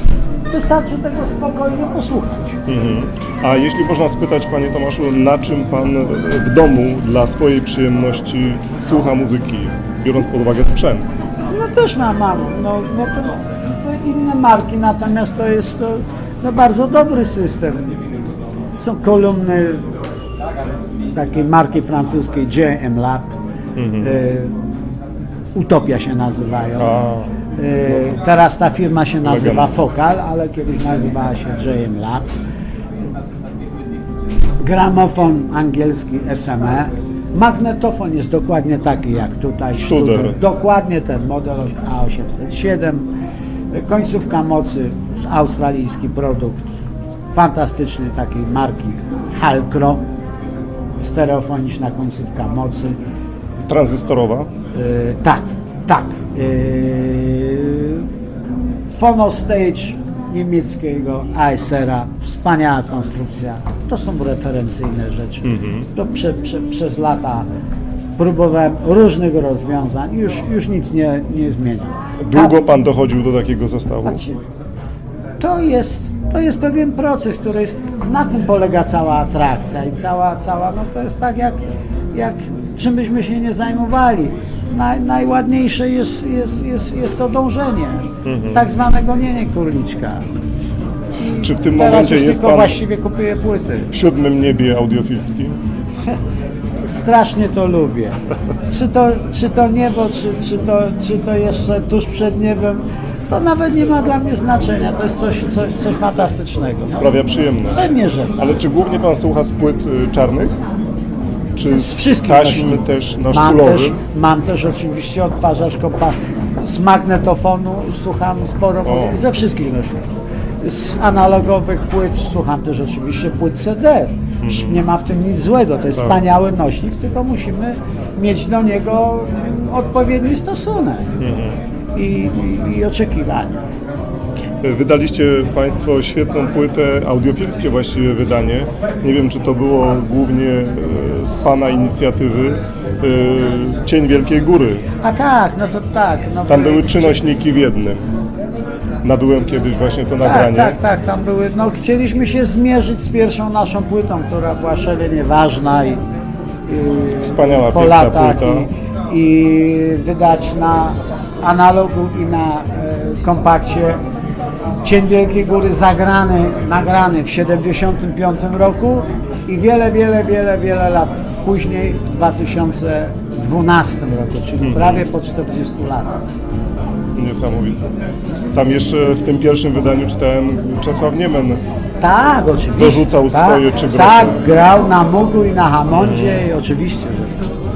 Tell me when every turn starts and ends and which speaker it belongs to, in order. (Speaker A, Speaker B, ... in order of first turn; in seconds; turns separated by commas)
Speaker A: 0.5-2.6, Speaker B: 2.7-11.1, Speaker A: 11.5-18.0, Speaker A: 18.8-19.8, Speaker A: 21.1-23.4, Speaker B: 23.8-24.1, Speaker A: 24.0-24.5, Speaker A: 25.5-27.0, Speaker B: 26.8-27.3, Speaker A: 27.6-32.3, Speaker B: 29.2-29.7, Speaker A: 34.6-43.1, Speaker B: 39.8-40.4, Speaker A: 43.7-46.8, Speaker A: 47.3-50.0, Speaker A: 51.0-53.0, Speaker B: 53.6-54.5, Speaker A: 54.7-58.1, Speaker A: 58.9-67.5, Speaker B: 65.4-65.8, Speaker A: 68.2-72.6, Speaker B: 72.2-74.2, Speaker A: 74.0-74.4, Speaker A: 75.4-90.2, Speaker B: 88.2-88.6, Speaker A: 91.2-93.9, Speaker B: 91.4-92.8, Speaker B: 93.9-95.5, Speaker A: 96.8-107.1, Speaker B: 106.9-107.8, Speaker A: 107.8-108.4, Speaker B: 108.4-110.6, Speaker B: 111.5-114.0, Speaker A: 111.7-120.1, Speaker B: 118.8-119.2, Speaker A: 120.6-131.1, Speaker B: 124.4-124.8, Speaker B: 131.2-131.6, Speaker A: 131.9-133.6, Speaker B: 134.6-144.8, Speaker A: 145.0-147.2, Speaker B: 146.5-148.1, Speaker B: 149.0-150.8, Speaker A: 150.2-156.0, Speaker A: 156.7-164.0, Speaker B: 157.2-158.7, Speaker A: 164.8-176.2, Speaker B: 174.6-175.0, Speaker B: 177.1-177.8, Speaker B: 178.5-181.6, Speaker A: 182.0-187.4, Speaker B: 182.8-184.4, Speaker B: 185.9-186.4